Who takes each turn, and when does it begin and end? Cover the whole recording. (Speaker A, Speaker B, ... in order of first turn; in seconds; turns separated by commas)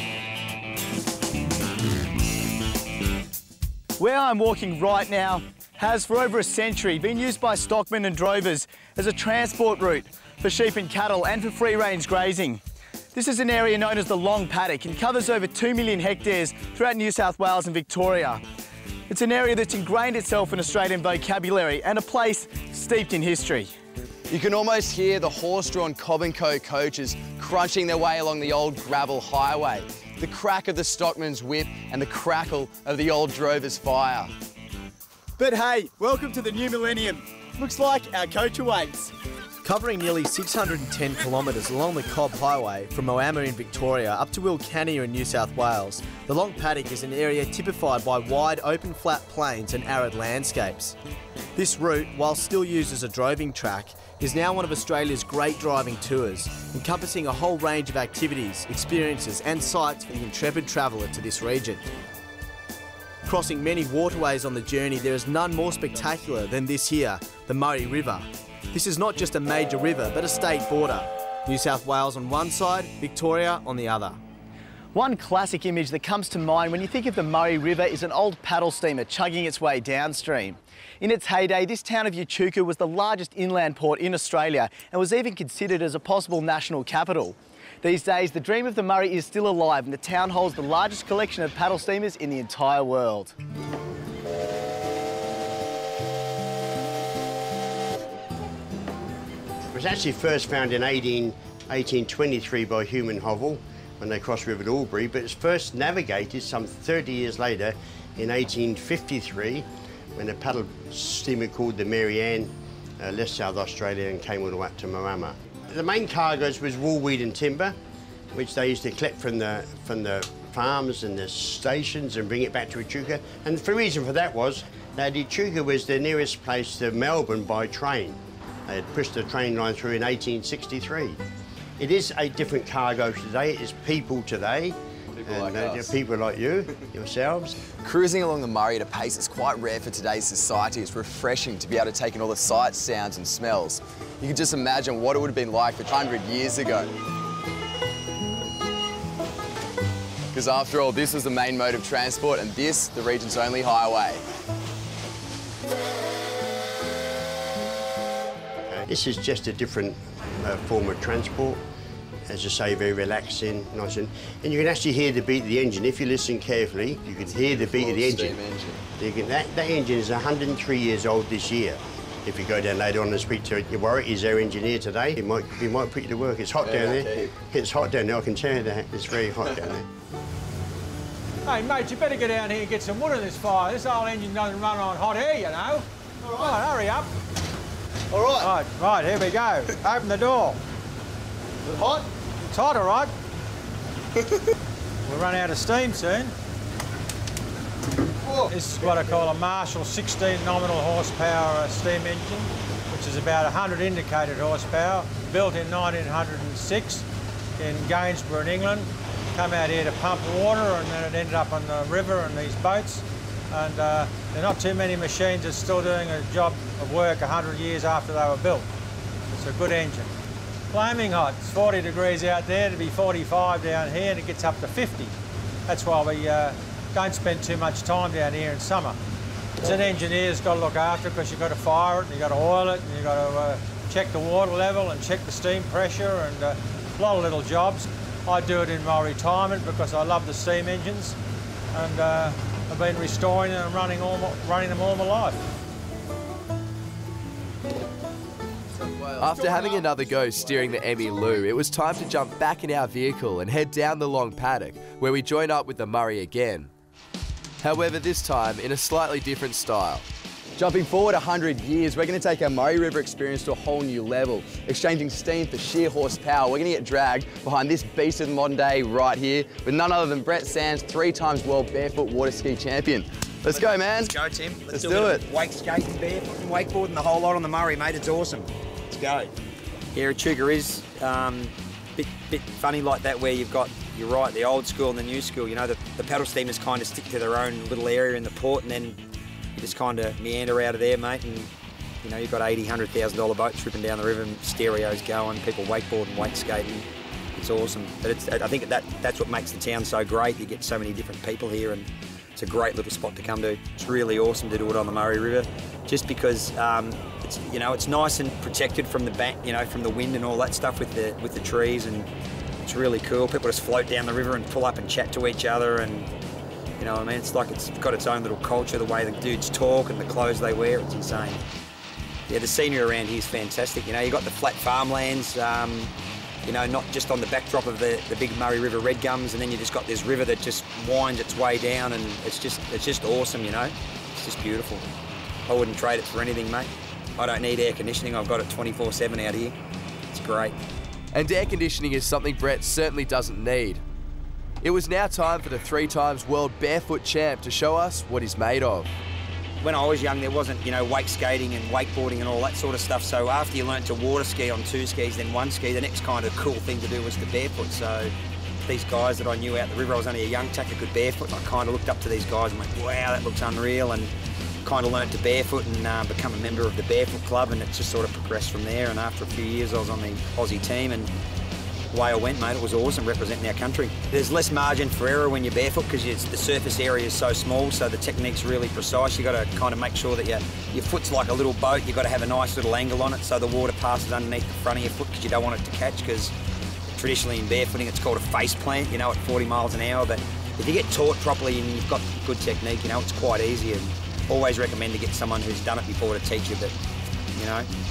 Speaker A: 4.0-12.6, Speaker A: 13.1-18.4, Speaker A: 19.1-23.7, Speaker B: 24.3-34.3, Speaker A: 35.4-39.1, Speaker C: 39.6-51.0, Speaker C: 51.5-61.8, Speaker C: 63.2-74.2, Speaker A: 74.9-93.3, Speaker D: 99.7-117.8, Speaker D: 118.3-131.2, Speaker D: 131.8-137.6, Speaker B: 135.2-135.7, Speaker B: 137.8-146.9, Speaker B: 150.3-154.2, Speaker D: 158.7-161.6, Speaker D: 162.3-168.4, Speaker B: 167.4-168.8, Speaker D: 169.0-179.9, Speaker B: 176.6-177.3, Speaker E: 181.4-187.1, Speaker A: 188.1-188.4, Speaker E: 188.4-190.6, Speaker A: 191.8-192.1, Speaker E: 192.4-193.1, Speaker E: 195.0-196.3, Speaker E: 198.4-207.0, Speaker E: 207.6-218.7, Speaker E: 219.3-220.1, Speaker E: 220.7-225.1, Speaker E: 225.7-228.9, Speaker E: 229.6-241.2, Speaker E: 241.7-245.4, Speaker F: 249.0-256.7, Speaker F: 257.6-260.1, Speaker B: 260.6-274.1, Speaker G: 273.5-279.3, Speaker B: 274.7-275.2, Speaker G: 279.9-289.0, Speaker G: 289.6-291.5, Speaker G: 292.0-312.1, Speaker G: 312.6-316.1, Speaker G: 316.8-321.4, Speaker G: 322.3-325.9, Speaker G: 326.4-334.9, Speaker G: 335.5-339.6, Speaker G: 340.1-340.6, Speaker F: 341.1-343.8, Speaker F: 344.6-348.9, Speaker G: 349.6-358.1, Speaker G: 358.6-364.1, Speaker G: 364.6-371.1, Speaker G: 371.9-386.3, Speaker G: 386.9-396.7, Speaker G: 397.3-397.7